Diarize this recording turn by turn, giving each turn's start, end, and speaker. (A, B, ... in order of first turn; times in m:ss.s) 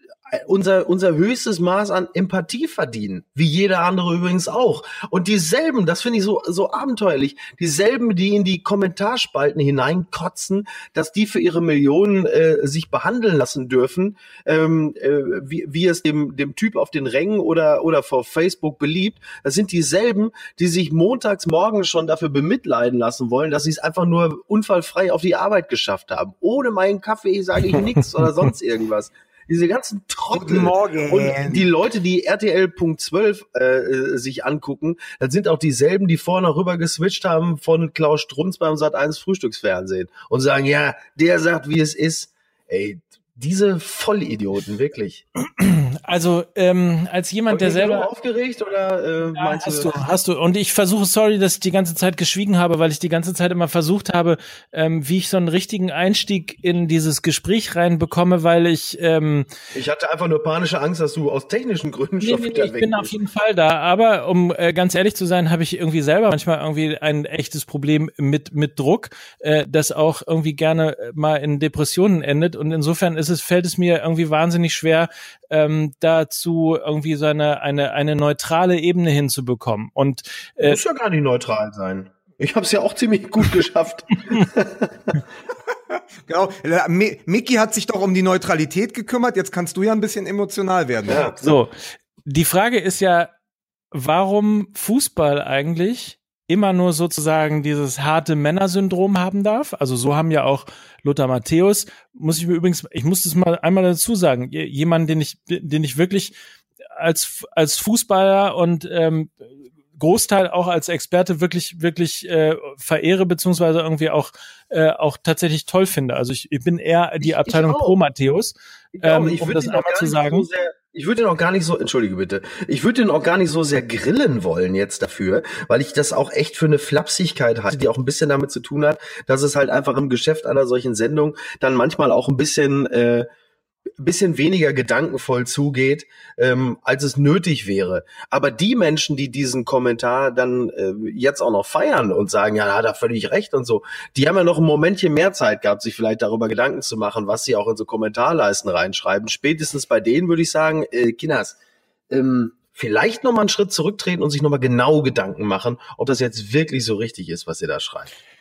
0:00.3-0:45.2 A
0:30.3-0:31.7 B
0:45.6-0:48.1 C
0:47.5-0:50.0 A
0:49.4-0:59.5 C
0:59.7-1:03.1 A
1:02.2-1:20.8 C
1:20.6-1:25.2 A
1:25.9-1:31.2 B
1:31.1-1:31.4 A
1:31.4-1:31.7 C
1:32.2-1:33.3 C
1:33.9-1:46.4 C
1:47.0-1:49.4 C
1:50.0-2:00.5 C
1:57.2-1:58.0 A
1:59.0-2:13.3 A
2:14.0-2:31.6 A
2:32.1-2:38.1 A